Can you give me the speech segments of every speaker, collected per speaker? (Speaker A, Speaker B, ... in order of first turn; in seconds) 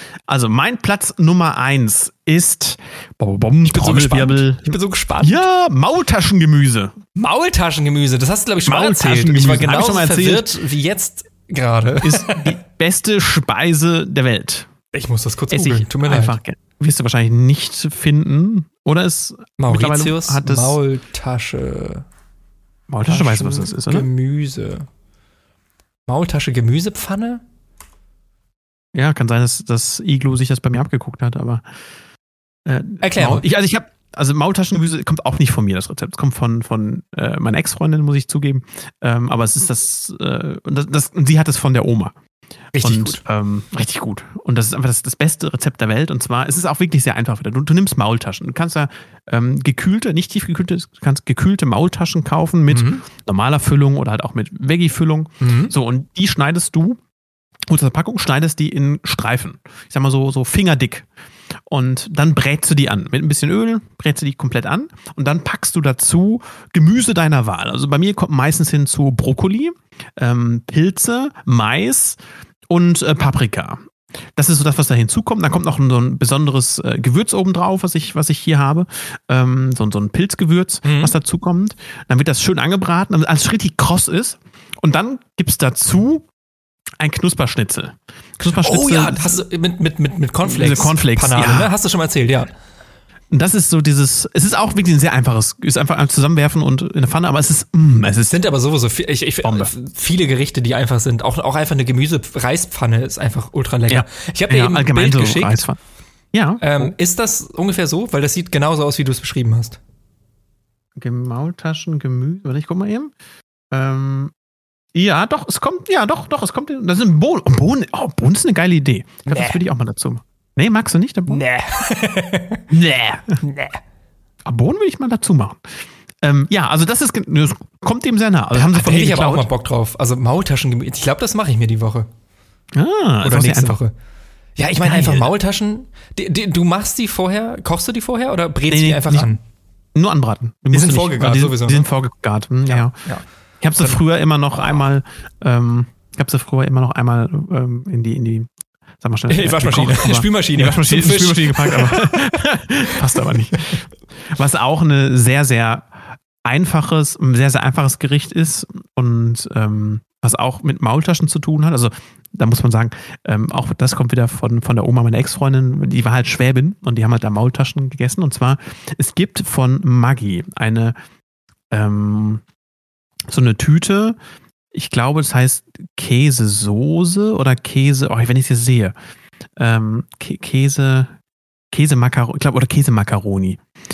Speaker A: 0.3-6.9, 8.7-10.5, 12.0-14.7, 15.5-20.8, 22.9-24.1, 28.9-31.6, 32.7-42.1, 42.8-57.0, 57.7-61.1, 61.7-73.8, 74.4-86.3, 87.0-89.4, 90.5-91.7, 93.3-98.4, 99.4-99.7, 103.9-105.8, 106.3-106.9, 111.0-113.1, 113.7-114.3, 114.9-121.4, 122.7-123.4, 124.5-125.6, 126.2-129.5, 132.7-133.8, 134.8-135.3, 138.7-139.4, 139.9-143.0, 143.6-148.5, 149.0-153.8, 154.3-155.8, 156.4-170.9, 171.7-172.4, 173.3-174.2, 174.7-178.9, 179.6-181.1, 181.7-183.6
Speaker B: 3.6-5.4, 7.2-12.6, 14.9-16.4, 19.6-22.1, 23.1-24.9, 26.1-27.4, 33.0-33.5, 42.7-43.2, 52.7-53.0, 55.4-55.7, 80.8-81.2, 88.6-92.5, 98.3-105.6, 106.6-109.8, 119.3-119.6, 121.3-122.6, 123.4-123.8, 128.6-132.1, 133.2-133.9, 134.6-139.4, 140.7-141.9, 142.7-143.2, 149.3-152.3, 153.1-153.8